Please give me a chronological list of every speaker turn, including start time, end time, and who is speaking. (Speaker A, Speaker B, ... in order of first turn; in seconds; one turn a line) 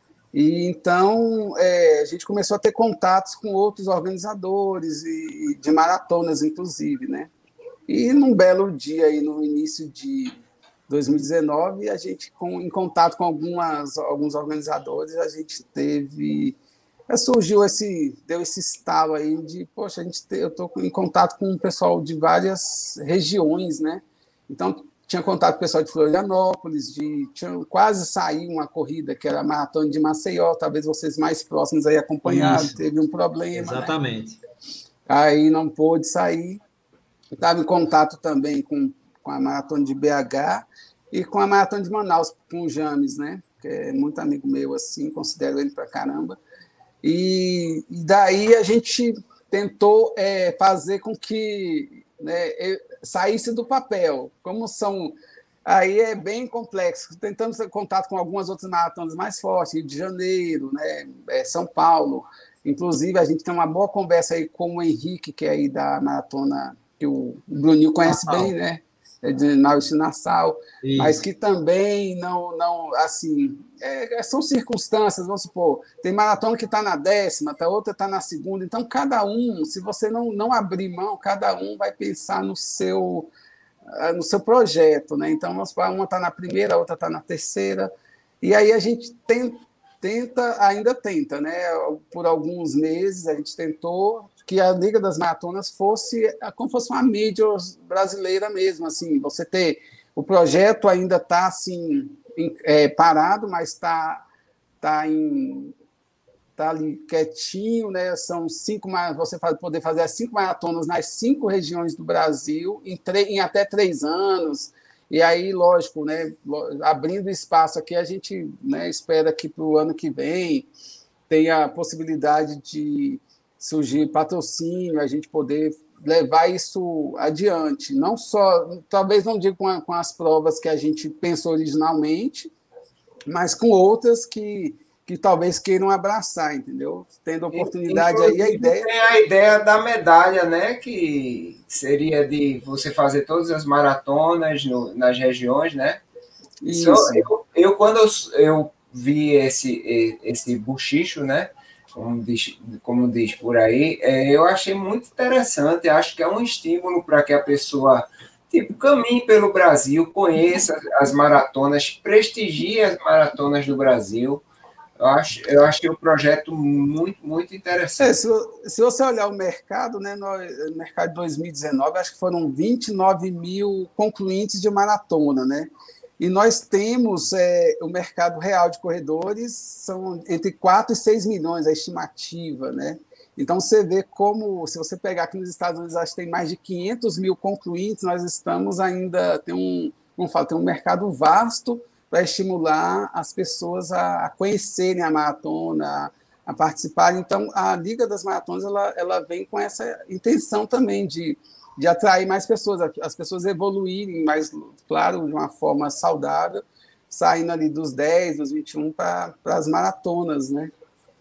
Speaker A: 0.3-7.3
Speaker A: 7.9-10.4
Speaker A: 10.9-16.6
Speaker A: 17.1-33.9
Speaker B: 32.2-32.8
Speaker B: 33.5-34.4
Speaker A: 35.1-36.6
Speaker A: 37.4-46.4
Speaker A: 47.0-83.3
Speaker B: 68.0-68.5
Speaker B: 70.8-71.2
Speaker A: 83.9-87.9
Speaker A: 88.4-104.2
Speaker A: 104.8-105.7
Speaker A: 106.6-120.7
Speaker A: 121.3-132.5
Speaker A: 133.3-138.8
Speaker C: 137.5-146.0
Speaker A: 146.6-147.3
Speaker C: 146.7-164.4
Speaker C: 165.0-168.1
Speaker A: 168.0-210.7